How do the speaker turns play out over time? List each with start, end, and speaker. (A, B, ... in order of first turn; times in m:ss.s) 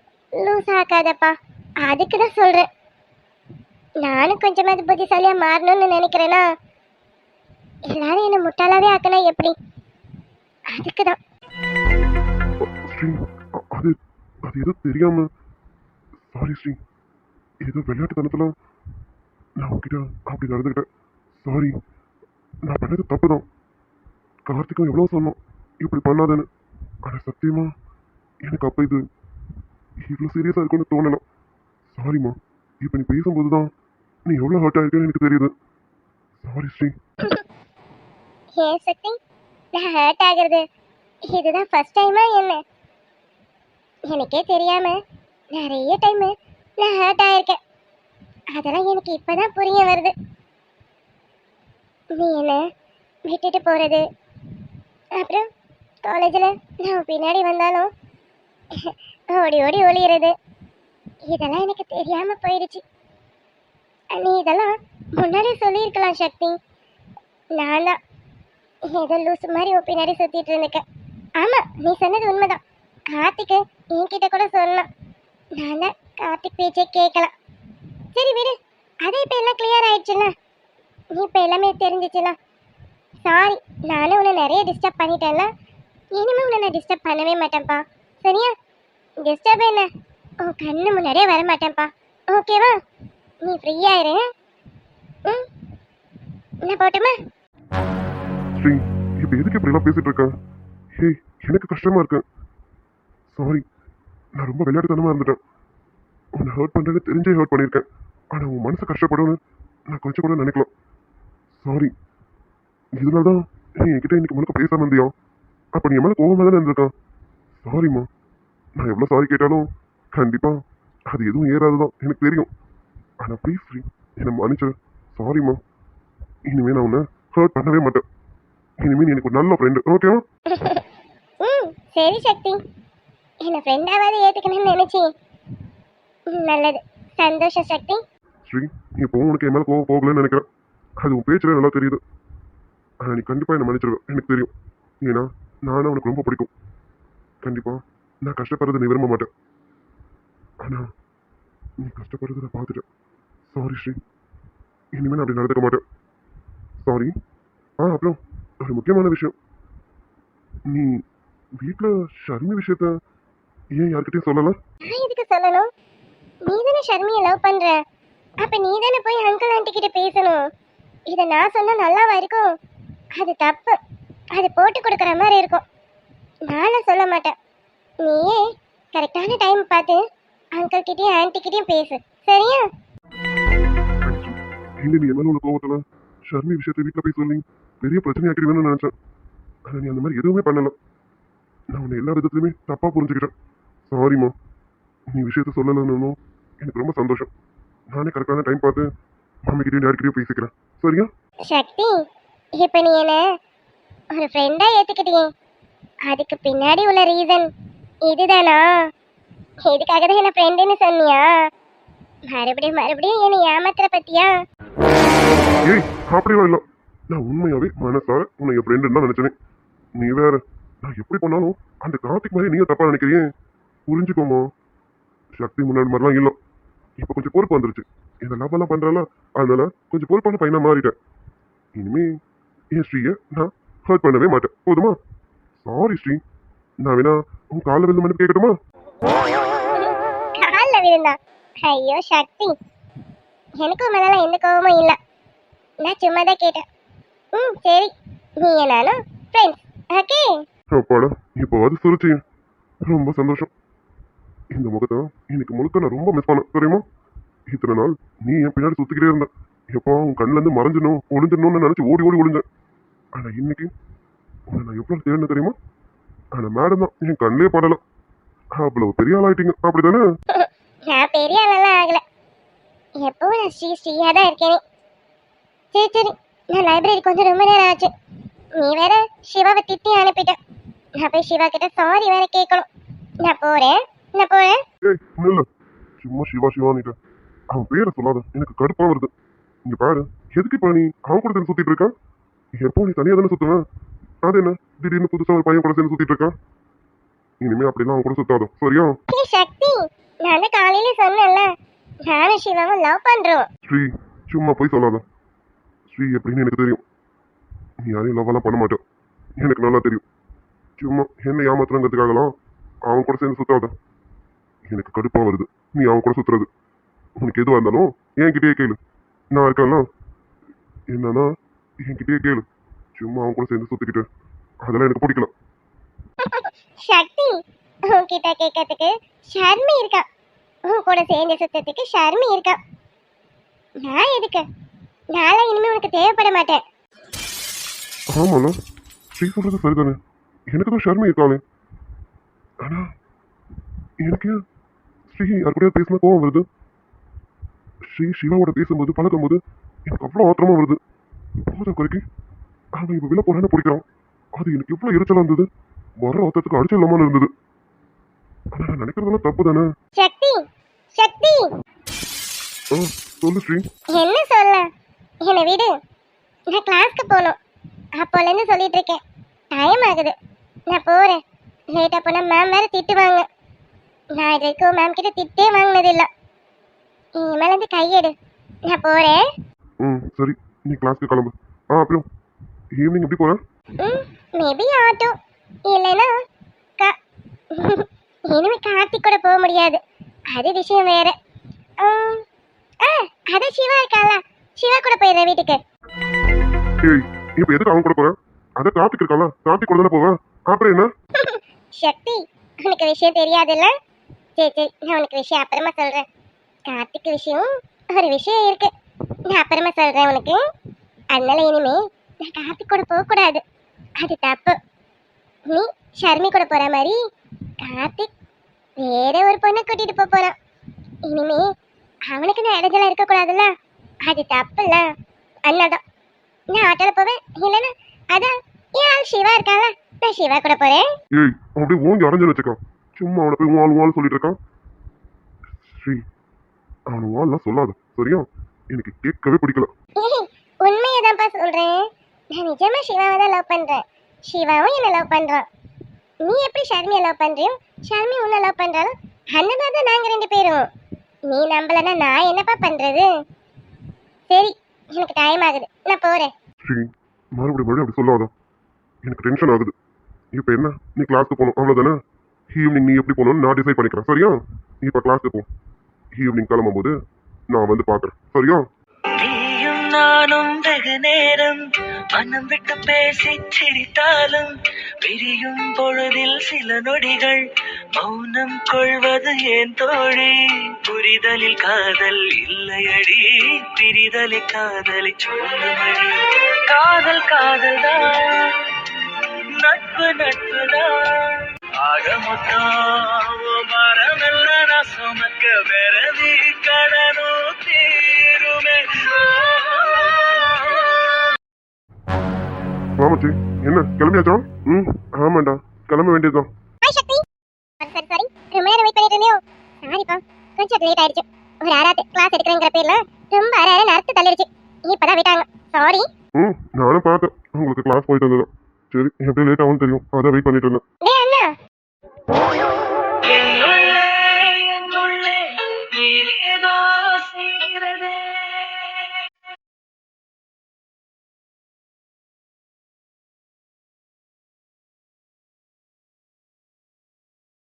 0:00.4-0:02.7 A
0:04.0-0:06.4 A
0:07.9-0:09.5 A
0:10.7-0:11.2 A
0:12.6-0:15.2 B
0:16.3-0:16.8 B
0:17.6-0:18.5 B
0:19.6-0:20.8 B
0:21.4-0:21.7 B
0:22.6-0:23.4 B
0:24.4-0:26.4 B
0:27.0-0:27.7 B
0:28.4-0:29.0 B
0:30.0-0:31.2 B
0:31.9-0:33.7 B
0:34.3-0:35.5 B
0:36.4-0:36.9 B
0:38.6-0:39.2 A
0:39.7-0:40.6 A
0:41.3-0:42.6 A
0:44.1-0:45.0 A
0:45.5-0:47.6 A
0:48.5-0:50.1 A
0:52.2-0:52.6 A
0:53.3-0:54.0 A
0:55.2-0:55.5 A
0:56.0-0:57.9 A
0:58.8-1:00.3 A
1:01.3-1:02.8 A
1:04.1-1:06.6 A
1:07.6-1:08.0 A
1:08.9-1:10.8 A
1:11.4-1:12.6 A
1:13.1-1:14.8 A
1:15.6-1:17.3 A
1:18.1-1:20.3 A
1:21.1-1:22.4 A
1:23.2-1:25.5 A
1:26.1-1:28.5 A
1:29.2-1:29.9 A
1:30.4-1:32.7 A
1:33.4-1:34.2 A
1:36.6-1:37.1 A
1:38.6-1:40.3 B
1:41.0-1:42.2 B
1:43.3-1:43.6 B
1:44.4-1:45.4 B
1:46.4-1:49.4 B
1:49.9-1:50.7 B
1:51.6-1:51.9 B
1:53.0-1:55.1 B
1:55.7-1:56.9 B
1:57.6-1:58.1 B
1:58.8-2:02.5 B
2:03.2-2:05.6 B
2:06.5-2:08.0 B
2:08.8-2:10.2 B
2:10.5-2:10.8 A
2:11.4-2:12.6 A
2:13.4-2:15.1 A
2:16.3-2:18.0 A
2:18.4-2:20.4 B
2:21.0-2:22.0 B
2:23.0-2:26.5 B
2:27.4-2:29.3 B
2:30.6-2:30.9 B
2:31.8-2:32.8 B
2:33.5-2:34.0 B
2:34.9-2:35.8 B
2:36.8-2:37.1 B
2:37.8-2:39.3 B
2:40.7-2:41.0 B
2:41.6-2:42.9 B
2:43.8-2:44.6 B
2:44.8-2:45.7 A
2:46.5-2:47.8 A
2:48.4-2:50.4 A
2:51.1-2:52.5 A
2:53.2-2:53.8 A
2:54.3-2:55.6 A
2:56.5-2:57.3 A
2:58.0-2:58.4 A
2:58.9-3:00.0 A
3:00.6-3:02.6 A
3:04.0-3:08.9 B
3:09.7-3:10.7 B
3:11.7-3:13.3 B
3:13.9-3:14.3 B
3:15.1-3:17.3 B
3:17.9-3:18.8 B
3:19.5-3:21.1 B
3:21.5-3:21.9 A
3:22.6-3:23.2 A
3:24.1-3:25.3 A
3:26.1-3:27.5 A
3:28.0-3:28.6 A
3:29.6-3:31.2 A
3:32.3-3:34.4 A
3:35.6-3:39.3 B
3:40.0-3:43.2 B
3:43.9-3:44.5 B
3:45.4-3:46.3 B
3:47.0-3:50.9 B
3:51.7-3:52.1 B
3:52.7-3:55.0 B
3:55.6-3:56.2 B
3:56.8-3:58.5 B
3:59.8-4:02.5 A
4:03.6-4:05.0 A
4:05.8-4:06.6 A
4:07.3-4:10.4 A
4:10.7-4:12.2 B
4:12.8-4:13.5 B
4:14.5-4:16.8 B
4:17.5-4:22.4 B
4:23.1-4:23.7 B
4:24.5-4:25.5 B
4:26.3-4:27.8 B
4:28.6-4:30.0 B
4:30.3-4:32.0 A
4:33.0-4:34.6 A
4:35.7-4:37.9 A
4:38.6-4:40.4 A
4:41.0-4:42.6 A
4:43.2-4:44.6 A
4:44.8-4:45.4 B
4:46.0-4:46.9 B
4:47.5-4:49.1 B
4:49.7-4:51.9 B
4:52.6-4:53.6 B
4:54.2-4:56.3 B
4:57.4-4:59.0 B
4:59.1-5:01.5 A
5:02.0-5:03.5 A
5:03.6-5:05.0 B
5:05.9-5:06.8 B
5:07.8-5:08.8 B
5:09.4-5:10.0 B
5:10.8-5:12.3 B
5:12.9-5:13.7 B
5:14.7-5:16.5 B
5:17.2-5:18.8 B
5:19.3-5:19.8 B
5:20.9-5:21.3 B
5:21.8-5:22.4 B
5:23.0-5:24.0 B
5:24.6-5:25.3 B
5:26.2-5:27.3 A
5:27.9-5:30.0 A
5:30.7-5:32.6 A
5:33.8-5:34.4 A
5:35.1-5:36.6 A
5:38.1-5:38.5 B
5:39.1-5:40.0 B
5:40.5-5:41.4 B
5:42.6-5:42.9 B
5:44.0-5:44.4 B
5:45.1-5:46.4 B
5:47.9-5:50.8 B
5:51.5-5:52.0 B
5:52.8-5:55.4 B
5:56.0-5:57.3 B
5:58.5-5:59.7 B
6:00.0-6:00.4 A
6:01.0-6:01.5 A
6:02.7-6:03.6 B
6:03.9-6:04.6 A
6:05.2-6:05.7 A
6:06.5-6:07.4 A
6:08.0-6:09.0 A
6:09.5-6:10.1 A
6:10.7-6:11.2 A
6:11.7-6:13.2 A
6:14.2-6:16.1 A
6:17.2-6:18.1 A
6:18.7-6:19.2 A
6:19.8-6:22.0 B
6:22.8-6:23.4 B
6:23.8-6:25.1 A
6:25.7-6:26.1 A
6:27.5-6:31.1 A
6:31.8-6:32.2 A
6:32.8-6:35.6 A
6:36.8-6:40.9 B
6:41.2-6:43.7 A
6:44.4-6:46.0 A
6:46.7-6:48.7 A
6:49.3-6:50.4 A
6:51.1-6:53.4 A
6:54.0-6:54.6 A
6:55.5-6:57.0 A
6:57.6-6:58.1 A
6:58.8-7:00.3 A
7:01.1-7:01.5 A
7:02.1-7:03.5 A
7:04.0-7:04.8 A
7:05.5-7:05.8 A
7:06.5-7:10.9 A
7:11.1-7:14.4 B
7:15.6-7:16.0 B
7:16.9-7:19.7 B
7:20.0-7:21.8 A
7:22.3-7:25.4 A
7:26.2-7:30.6 A
7:31.3-7:33.1 A
7:34.3-7:36.3 A
7:36.6-7:38.3 B
7:39.0-7:39.7 B
7:40.3-7:42.0 B
7:42.5-7:45.5 B
7:46.2-7:46.9 B
7:47.5-7:48.6 B
7:49.2-7:51.6 C
7:52.1-7:57.4 C
7:58.0-8:00.3 C
8:00.8-8:08.5 C
8:09.6-8:10.9 C
8:11.8-8:21.2 C
8:23.0-8:26.5 B
8:26.8-8:27.2 A
8:27.8-8:36.0 A
8:36.4-8:40.8 B
8:41.0-8:41.5 A
8:43.2-8:49.2 C